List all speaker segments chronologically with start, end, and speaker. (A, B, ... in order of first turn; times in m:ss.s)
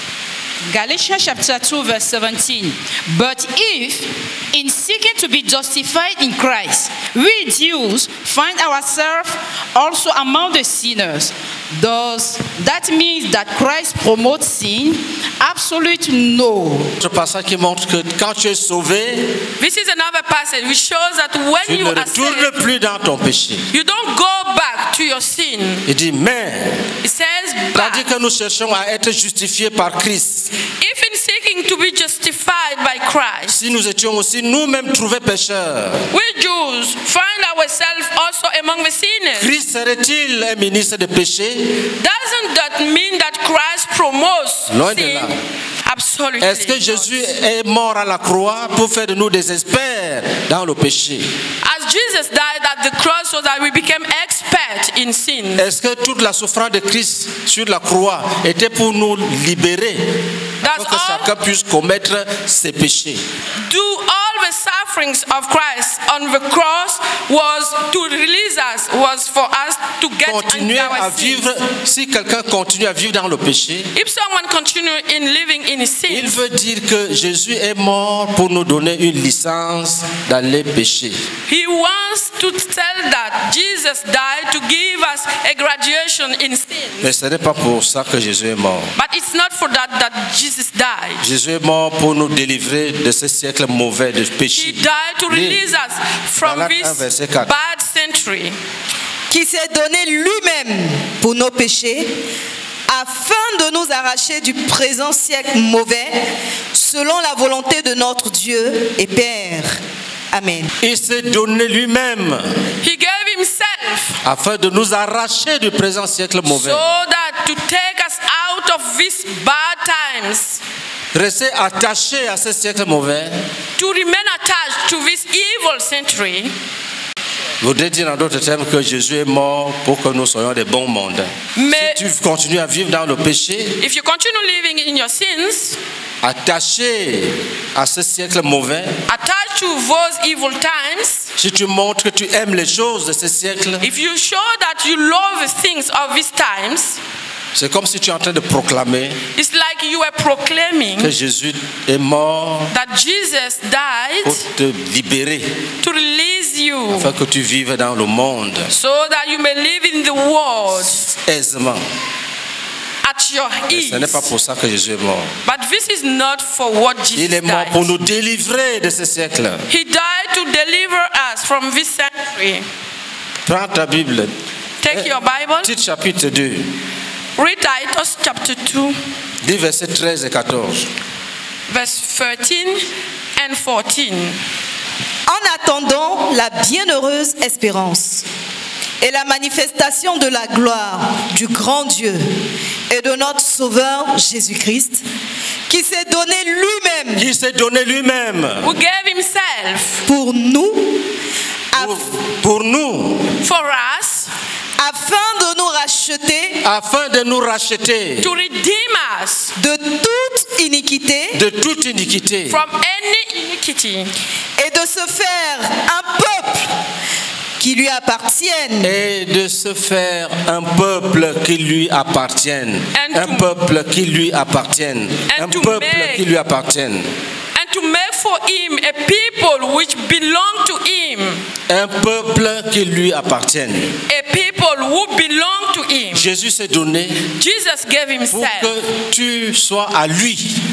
0:00.6-0:16.9 A
0:17.0-0:19.4 B
0:19.6-0:22.5 C
0:21.6-0:23.7 B
0:23.7-0:25.8 C
0:25.8-0:26.8 B
0:27.0-0:28.0 C
0:27.7-0:30.5 B
0:30.8-0:33.6 C
0:33.5-0:36.1 B
0:36.1-0:39.5 C
0:39.4-0:41.8 B
0:42.0-0:47.2 C
0:44.7-0:45.4 B
0:46.4-0:51.3 B
0:51.6-0:55.6 C
0:55.6-1:03.2 B
1:00.6-1:01.3 C
1:03.6-1:11.5 C
1:10.2-1:13.9 B
1:13.9-1:16.4 C
1:16.1-1:21.2 B
1:21.5-1:27.1 C
1:27.0-1:28.9 B
1:29.0-1:31.2 C
1:31.2-1:35.6 B
1:34.5-1:38.6 C
1:36.4-1:37.5 B
1:39.3-1:42.2 D
1:42.9-1:49.8 D
1:50.3-1:50.7 D
1:50.8-1:52.6 B
1:52.8-1:54.2 C
1:54.2-1:56.8 B
1:56.5-2:00.6 C
2:01.1-2:03.5 B
2:03.8-2:06.5 C
2:07.6-2:13.8 B
2:11.6-2:12.0 C
2:13.8-2:15.8 C
2:16.2-2:19.0 B
2:19.1-2:21.3 C
2:21.4-2:23.9 B
2:23.8-2:27.0 C
2:27.5-2:29.2 B
2:29.3-2:31.1 C
2:31.0-2:32.7 B
2:32.7-2:34.4 C
2:34.2-2:35.6 B
2:35.8-2:37.1 C
2:36.9-2:38.7 B
2:38.7-2:41.1 C
2:41.2-2:41.8 B
2:43.0-2:44.3 C
2:43.7-2:45.3 B
2:45.4-2:47.9 C
2:47.1-2:49.6 B
2:49.7-2:52.6 C
2:53.4-2:54.3 B
2:54.8-2:55.7 C
2:54.9-2:56.7 B
2:57.4-2:59.0 C
2:59.4-3:00.9 B
3:01.7-3:02.8 C
3:03.4-3:04.4 C
3:05.3-3:08.2 D
3:09.0-3:12.3 D
3:12.9-3:15.0 D
3:15.7-3:17.2 D
3:17.2-3:18.7 B
3:18.6-3:20.0 C
3:20.1-3:21.0 D
3:21.7-3:22.1 D
3:21.7-3:23.3 B
3:23.4-3:24.3 C
3:24.8-3:26.6 D
3:26.6-3:28.3 B
3:28.2-3:29.5 C
3:29.6-3:31.4 D
3:31.3-3:32.6 B
3:32.5-3:34.1 C
3:34.6-3:36.7 D
3:37.6-3:38.9 D
3:38.8-3:47.1 B
3:42.9-3:43.5 C
3:45.3-3:46.2 C
3:47.5-3:51.4 C
3:51.7-3:54.0 B
3:54.1-3:56.3 C
3:56.1-3:57.2 B
3:57.2-3:58.7 C
3:58.3-4:00.6 B